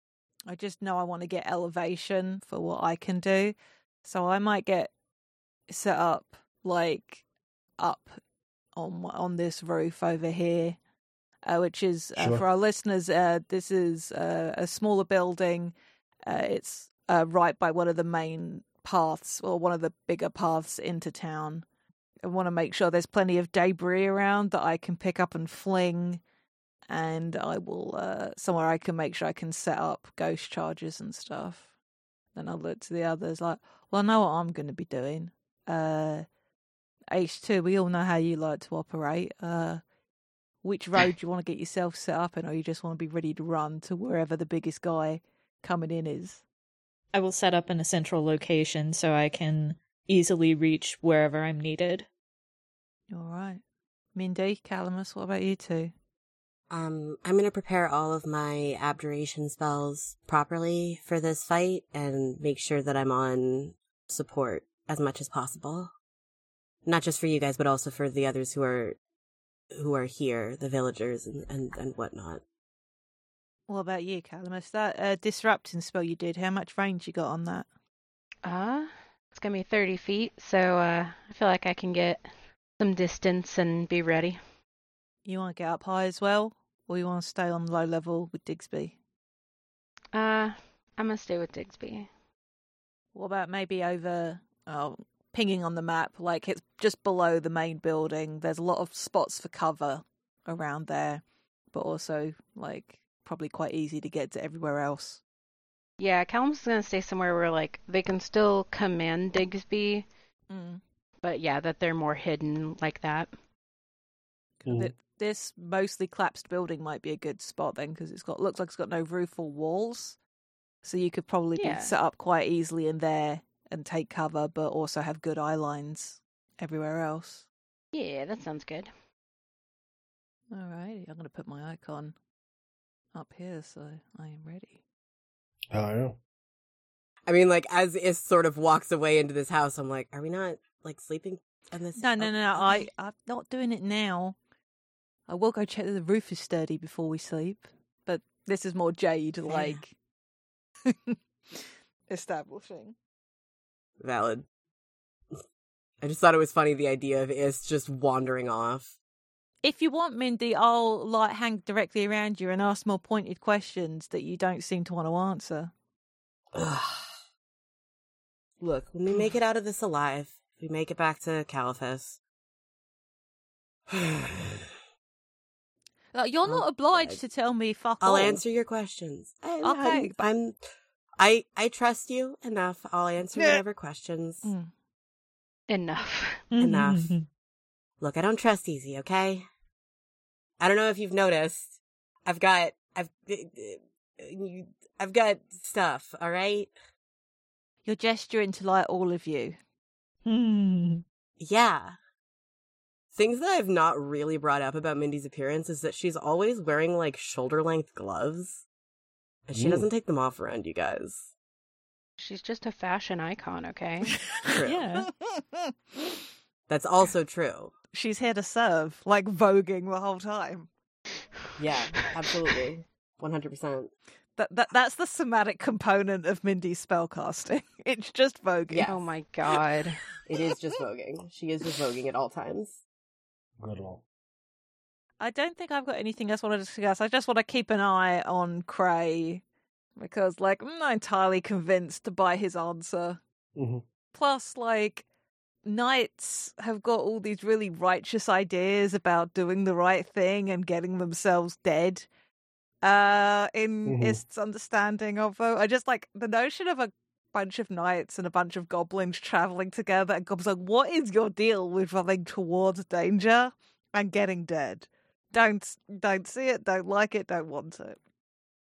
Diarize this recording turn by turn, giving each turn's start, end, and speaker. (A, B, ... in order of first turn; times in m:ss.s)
0:00.5-0:04.9 A
0:05.7-0:07.2 A
0:07.8-0:08.2 A
0:08.8-0:10.8 A
0:11.4-0:21.6 A
0:12.2-0:12.4 B
0:22.2-0:26.2 A
0:26.9-0:31.7 A
0:32.3-0:36.2 A
0:37.1-0:39.8 A
0:40.6-0:46.4 A
0:47.1-0:52.1 C
0:53.1-0:53.6 A
0:54.1-0:55.9 A
0:56.7-1:05.9 D
1:06.8-1:09.0 D
1:09.7-1:12.4 D
1:13.7-1:17.7 A
1:18.4-1:22.3 E
1:22.8-1:24.4 E
1:25.2-1:29.0 A
1:30.1-1:32.1 E
1:33.1-1:45.2 A
1:46.0-1:50.1 E
1:50.5-1:50.8 A
1:51.2-1:53.3 E
1:54.6-2:00.2 A
1:54.6-1:54.9 B
2:00.8-2:07.4 A
2:01.6-2:01.9 E
2:07.9-2:08.9 E
2:10.5-2:12.1 A
2:13.1-2:14.8 A
2:15.7-2:16.2 B
2:17.2-2:22.9 D
2:22.0-2:24.4 A
2:25.3-2:29.9 A
2:29.4-2:29.8 D
2:30.8-2:33.0 A
2:34.0-2:34.4 D
2:36.0-2:38.9 D
2:39.6-2:45.7 A
2:46.5-2:47.1 D
2:48.6-2:52.2 D
2:53.9-2:54.7 D
2:56.1-2:58.4 A
2:56.4-2:57.2 D
2:58.0-3:00.6 D
2:59.6-3:00.2 A
3:01.2-3:04.5 D
3:03.4-3:03.6 A
3:04.4-3:04.7 A
3:05.7-3:06.5 E
3:06.5-3:07.2 C
3:06.6-3:07.2 D
3:08.0-3:09.4 D
3:10.6-3:16.7 D
3:17.8-3:19.6 A
3:20.2-3:21.0 C
3:21.4-3:22.0 D
3:23.1-3:28.6 D
3:29.5-3:31.3 D
3:29.6-3:29.9 B
3:32.2-3:34.2 E
3:34.5-3:34.8 D
3:34.6-3:35.1 C
3:35.2-3:35.7 A
3:36.7-3:37.7 D
3:37.9-3:40.7 A
3:41.6-3:43.9 D
3:44.4-3:49.0 A
3:48.7-3:49.0 D
3:48.8-3:50.0 E
3:50.2-3:52.8 D
3:53.6-3:54.0 B
3:55.2-3:59.4 A
4:00.0-4:03.2 A
4:03.6-4:03.8 B
4:04.1-4:05.0 A
4:05.6-4:12.1 A
4:12.8-4:28.0 A
4:13.8-4:14.2 B